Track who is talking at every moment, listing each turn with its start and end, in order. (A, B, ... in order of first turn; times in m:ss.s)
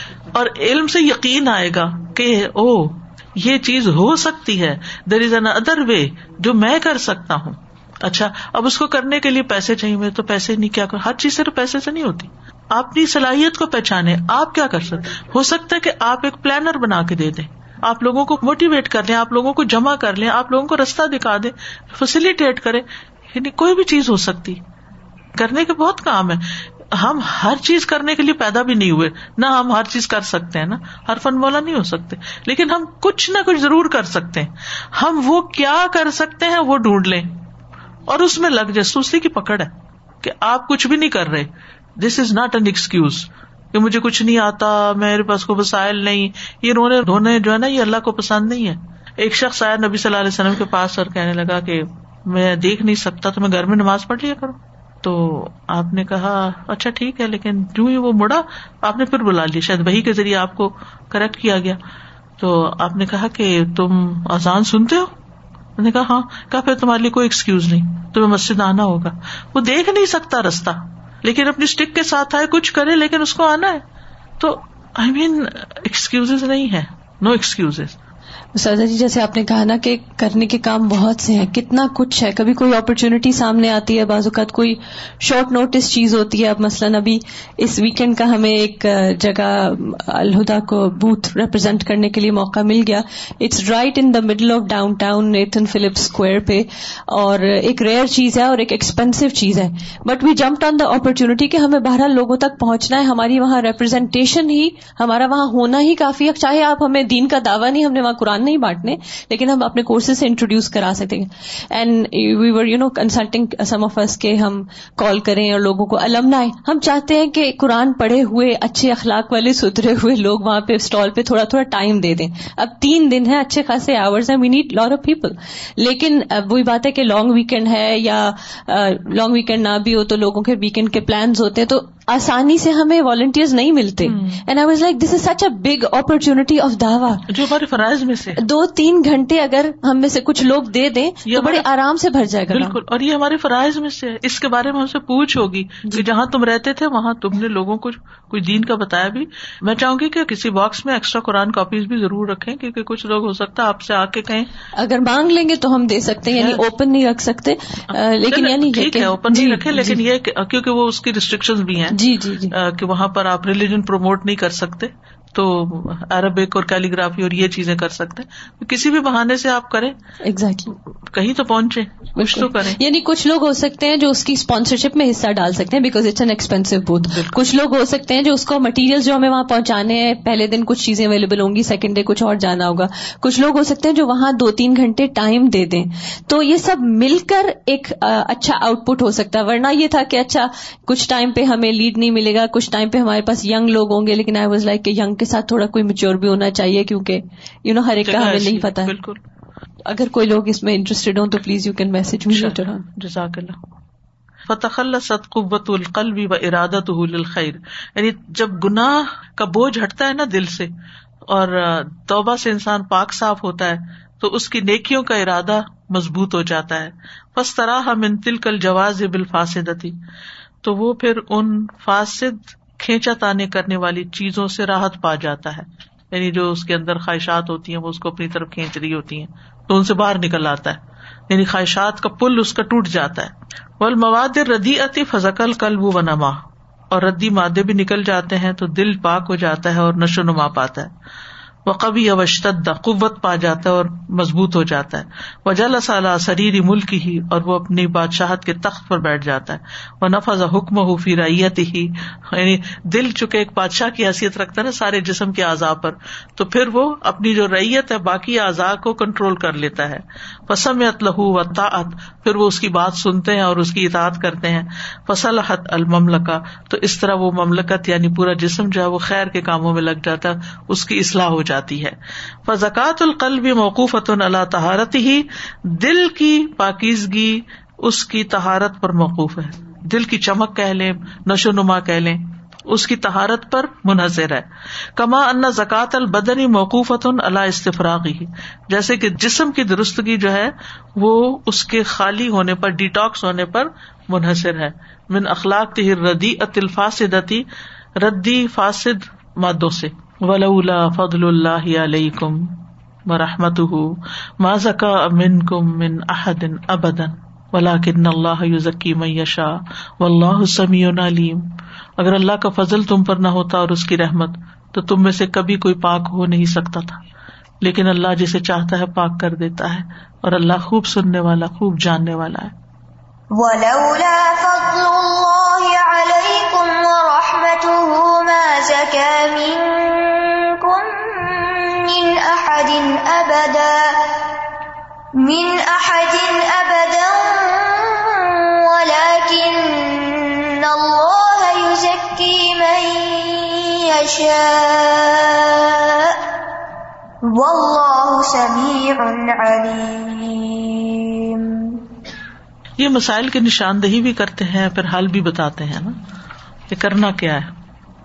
0:00.3-0:24.6 A
0:25.4-0:37.4 A
0:38.1-1:01.8 A
1:02.4-1:05.1 A
1:05.8-1:13.8 A
1:14.4-1:18.0 A
1:18.5-2:17.2 B
2:14.0-2:14.4 A
2:17.3-2:18.4 A
2:18.4-2:22.8 B
2:21.2-2:21.6 A
2:22.5-2:34.5 A
2:34.8-2:40.0 B
2:36.3-2:36.6 A
2:38.3-2:50.0 A
2:41.9-2:42.5 B
2:50.2-2:50.7 B
2:51.1-2:52.8 A
2:52.2-3:18.9 B
2:57.1-2:57.4 A
3:18.0-3:19.2 A
3:19.8-3:22.8 B
3:22.3-3:23.6 A
3:24.5-3:30.7 A
3:31.3-3:40.0 A
3:40.6-4:00.9 A
4:01.6-4:57.4 A
4:58.0-5:17.0 A
5:17.6-5:22.5 A
5:23.3-5:34.3 C
5:35.2-5:46.3 C
5:47.2-5:51.8 C
5:52.8-5:56.0 A
5:56.7-5:57.5 A